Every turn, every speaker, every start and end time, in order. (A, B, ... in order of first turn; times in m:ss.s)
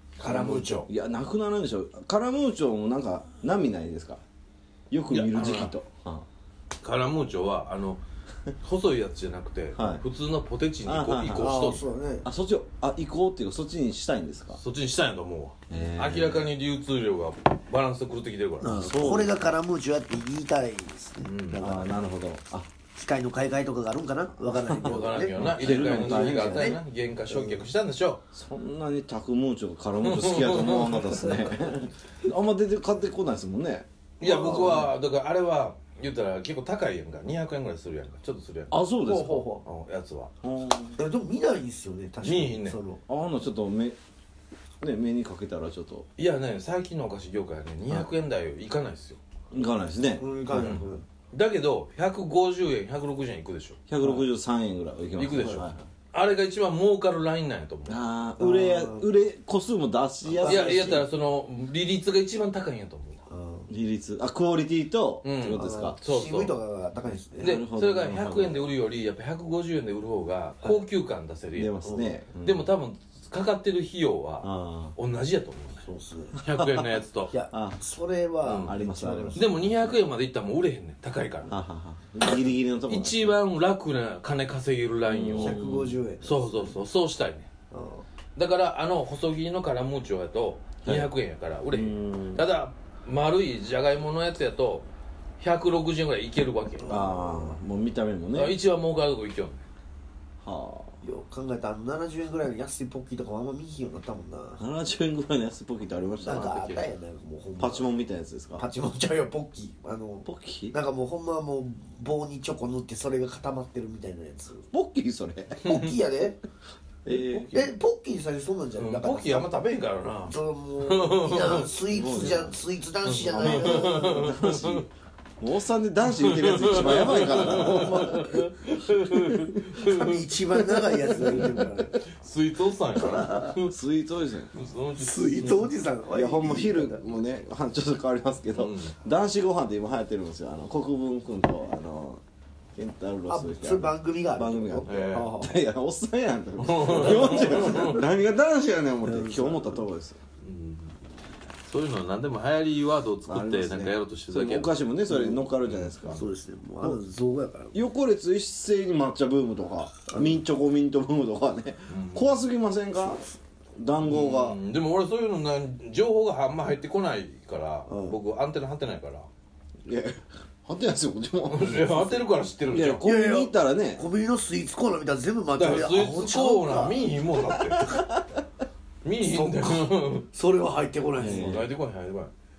0:00.2-0:00.9 A
0:00.2-0:04.2 B
0:04.9-0:06.3 B
0:05.1-0:05.8 C
0:06.8-0:08.0 C
0:08.6-0:11.9 C
0:09.7-0:10.0 B
0:10.8-0:11.6 B
0:11.4-0:12.3 A
0:12.2-0:14.6 B
0:14.6-0:18.8 C
0:15.7-0:16.5 B
0:18.6-0:22.0 A
0:18.6-0:19.3 B
0:21.2-0:21.6 C
0:21.6-0:22.7 B
0:22.9-0:26.8 A
0:24.8-0:28.2 C
0:24.9-0:26.8 B
0:28.3-0:34.9 B
0:30.0-0:31.3 C
0:31.2-0:31.5 A
0:34.2-0:38.8 C
0:34.2-0:34.9 A
0:38.7-0:39.5 B
0:39.0-0:39.6 A
0:39.6-0:40.3 C
0:40.4-0:41.0 B
0:41.0-0:43.0 A
0:42.2-0:42.8 C
0:43.1-0:44.0 B
0:44.8-0:46.1 B
0:46.2-0:49.2 C
0:49.5-0:50.8 B
0:50.2-0:51.0 A
0:50.5-0:53.8 C
0:53.9-0:55.8 B
0:55.2-0:58.0 C
0:57.9-1:01.0 B
0:58.4-0:59.1 A
1:00.4-1:03.2 C
1:00.4-1:01.1 A
1:03.3-1:03.7 A
1:03.7-1:06.0 B
1:05.2-1:06.6 C
1:05.5-1:07.6 A
1:07.4-1:11.8 C
1:07.4-1:08.6 B
1:11.6-1:12.7 B
1:11.8-1:12.2 A
1:12.4-1:15.9 C
1:14.4-1:15.0 B
1:15.8-1:16.4 A
1:16.4-1:17.3 C
1:17.3-1:19.9 A
1:17.5-1:17.8 B
1:18.4-1:18.7 C
1:18.6-1:19.6 B
1:19.4-1:21.6 C
1:21.5-1:23.4 B
1:22.3-1:25.6 C
1:25.1-1:26.0 B
1:25.4-1:26.8 A
1:26.2-1:27.5 C
1:27.7-1:28.0 A
1:28.4-1:34.9 C
1:30.8-1:31.1 B
1:31.7-1:32.5 B
1:35.4-1:37.0 C
1:36.8-1:37.6 A
1:36.9-1:38.6 B
1:38.3-1:39.6 C
1:40.4-1:41.0 B
1:41.0-1:44.6 A
1:44.6-1:46.5 B
1:46.2-1:47.9 A
1:46.3-1:46.9 C
1:47.6-1:48.6 B
1:48.6-1:54.7 A
1:50.2-1:50.8 B
1:54.7-1:55.7 B
1:55.6-1:56.4 A
1:55.7-1:55.9 C
1:57.1-1:57.7 B
1:57.1-1:57.5 C
1:57.5-1:59.5 A
1:58.8-2:02.5 C
2:00.3-2:04.4 A
2:01.9-2:02.6 B
2:03.0-2:04.9 C
2:03.3-2:04.8 B
2:05.4-2:09.8 B
2:06.0-2:10.3 C
2:07.1-2:08.5 A
2:09.8-2:12.0 A
2:10.6-2:11.6 B
2:11.1-2:13.8 C
2:13.0-2:13.5 A
2:13.6-2:14.6 B
2:14.5-2:15.7 C
2:15.0-2:17.1 A
2:16.1-2:22.2 B
2:18.5-2:19.0 C
2:22.8-2:30.2 B
2:23.3-2:25.5 A
2:24.9-2:25.3 C
2:26.6-2:28.1 C
2:26.9-2:28.0 A
2:29.0-2:29.9 A
2:30.4-2:31.0 C
2:31.6-2:34.7 C
2:33.2-2:36.2 B
2:35.1-2:35.5 A
2:35.6-2:36.2 C
2:36.0-2:37.8 A
2:37.7-2:43.2 B
2:40.1-2:40.4 A
2:41.9-2:42.4 C
2:43.8-2:44.6 B
2:44.0-2:49.3 C
2:47.9-2:48.2 A
2:49.8-2:52.1 B
2:51.5-2:53.1 C
2:52.7-2:54.0 B
2:53.0-2:57.1 A
2:55.6-2:57.9 C
2:57.5-2:58.2 B
2:59.0-3:00.3 C
2:59.2-3:01.6 A
3:01.2-3:01.7 B
3:01.2-3:02.3 C